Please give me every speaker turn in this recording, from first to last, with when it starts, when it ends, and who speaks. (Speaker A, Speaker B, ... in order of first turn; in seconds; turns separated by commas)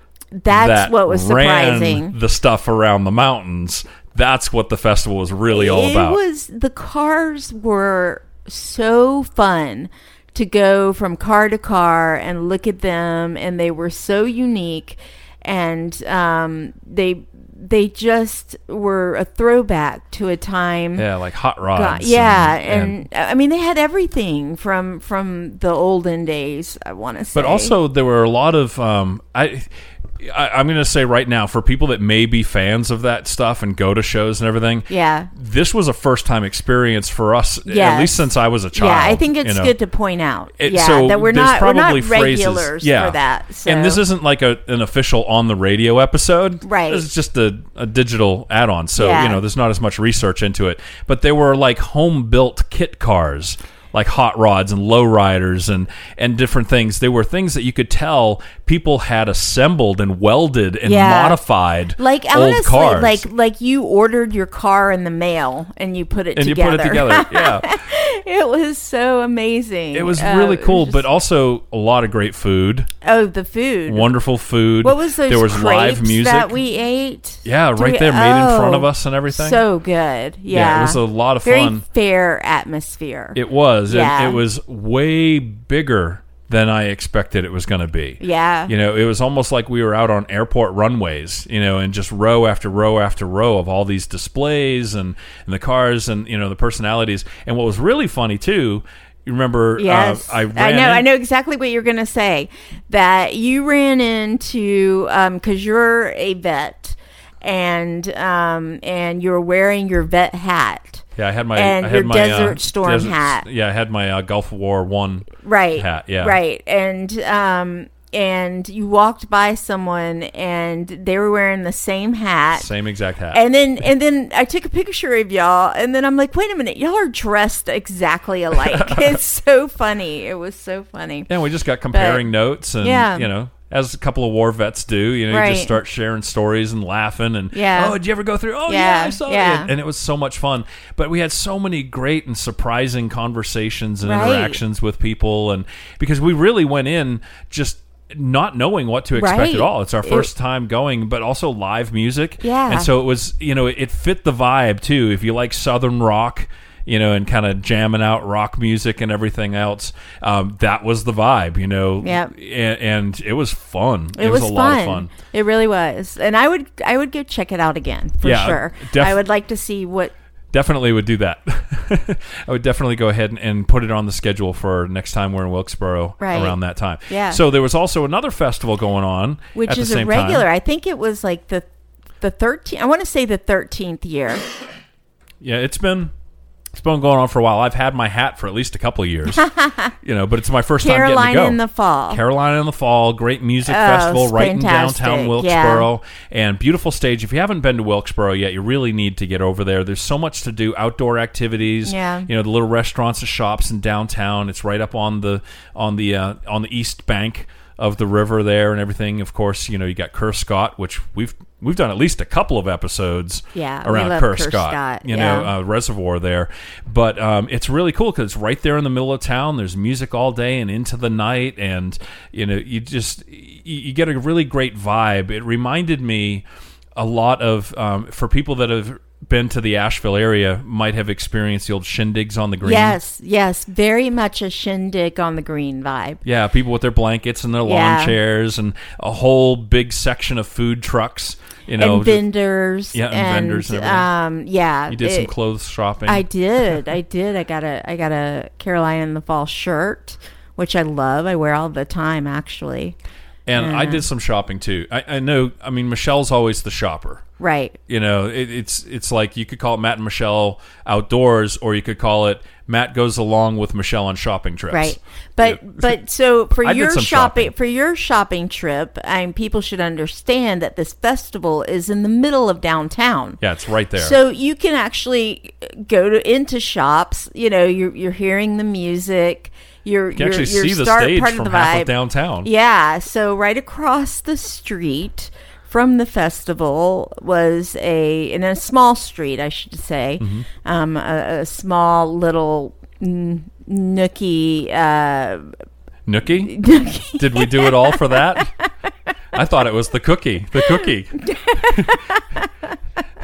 Speaker A: 0.3-2.1, Speaker B: 0.5-6.2, Speaker A: 5.5-21.1, Speaker B: 21.0-23.0, Speaker A: 21.7-27.7, Speaker B: 27.3-29.7, Speaker B: 30.2-39.7, Speaker A: 34.9-35.3, Speaker A: 37.6-44.0, Speaker B: 40.6-63.2, Speaker A: 46.6-47.1, Speaker A: 48.9-49.4, Speaker A: 60.8-61.4, Speaker A: 62.0-71.0, Speaker B: 66.3-67.7, Speaker B: 69.9-72.9, Speaker A: 73.0-74.1, Speaker B: 73.8-76.5, Speaker A: 74.8-84.4, Speaker B: 77.4-79.6, Speaker B: 80.5-81.8, Speaker B: 83.3-101.0, Speaker A: 88.2-88.7, Speaker A: 99.8-113.5, Speaker B: 111.2-116.4, Speaker A: 115.4-122.7, Speaker B: 122.5-123.4, Speaker A: 123.3-131.3, Speaker B: 131.3-165.1, Speaker A: 131.9-133.3, Speaker A: 135.3-135.7, Speaker A: 137.5-138.0, Speaker A: 138.7-139.7, Speaker A: 144.0-144.6, Speaker A: 149.1-150.3, Speaker A: 152.4-152.9, Speaker A: 162.0-162.3, Speaker A: 164.2-170.1, Speaker B: 168.2-169.2, Speaker B: 170.5-180.5, Speaker A: 176.2-177.4, Speaker A: 179.5-181.7, Speaker A: 182.2-184.4, Speaker B: 185.4-186.1, Speaker B: 186.7-189.5, Speaker A: 189.4-189.9, Speaker B: 190.0-226.4, Speaker A: 190.8-192.2, Speaker A: 193.6-195.9, Speaker A: 201.8-202.3, Speaker A: 213.5-215.5, Speaker B: 226.9-233.0, Speaker A: 232.6-236.2, Speaker B: 236.2-242.3, Speaker A: 237.6-238.2, Speaker A: 241.8-245.3, Speaker B: 242.9-244.1, Speaker B: 244.9-246.2, Speaker A: 246.0-252.9, Speaker B: 253.5-257.2, Speaker A: 253.5-254.1, Speaker A: 257.4-257.8, Speaker B: 257.9-266.0, Speaker A: 264.7-273.4, Speaker B: 266.6-267.5, Speaker B: 273.4-274.1, Speaker A: 273.9-295.6, Speaker B: 280.1-282.5, Speaker B: 290.2-290.5, Speaker B: 296.1-296.6, Speaker A: 296.2-298.7, Speaker B: 297.2-298.5, Speaker B: 299.3-302.0, Speaker A: 301.2-302.6